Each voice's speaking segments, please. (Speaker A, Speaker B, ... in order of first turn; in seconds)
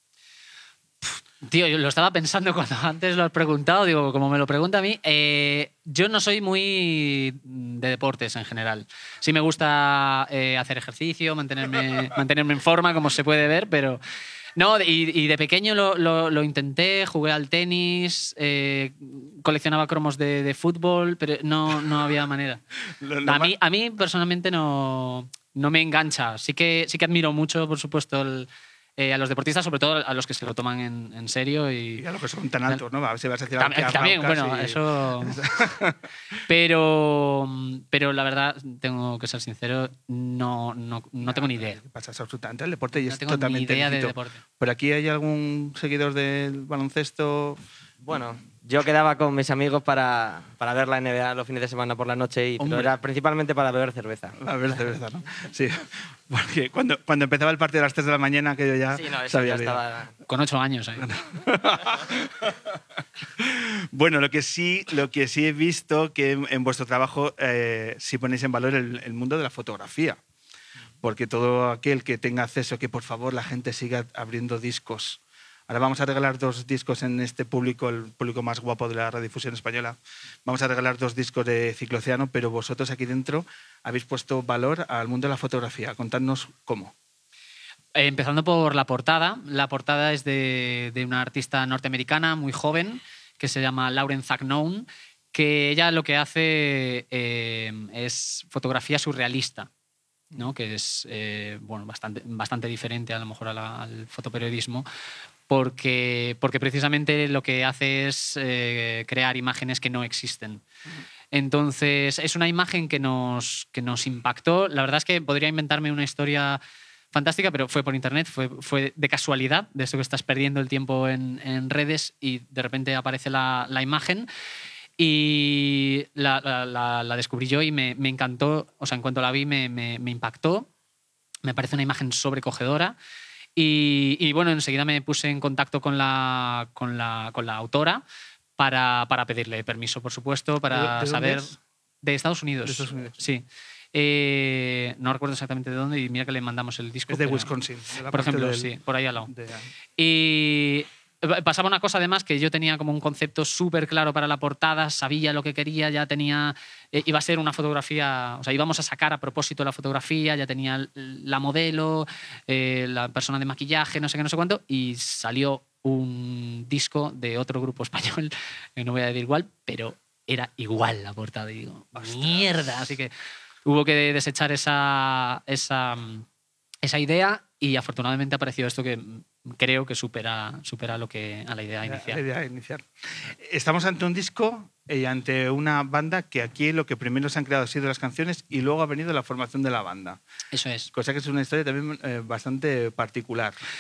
Speaker A: 1.0-14.0, 14.6-22.6, 23.2-32.0, 33.5-35.4, 36.5-41.8, 42.9-44.4, 60.3-61.1, 88.0-99.7, 100.4-104.9, 105.5-110.6, 111.3-116.6, 117.1-124.3, 125.0-130.7, 131.4-132.9, 133.6-138.0, 138.6-147.5, 148.1-149.3, 150.0-173.1, 173.7-176.3, 176.8-182.2, 190.5-190.9
Speaker B: 23.0-23.6, 32.0-36.0, 41.2-47.6, 52.6-53.0, 54.4-59.8, 61.0-62.8, 63.4-70.2, 71.0-86.9, 140.7-141.6, 142.7-143.2, 147.1-148.7, 149.3-149.7, 172.0-172.8, 181.8-190.2, 190.9-193.6
Speaker C: 48.0-54.4, 58.9-60.2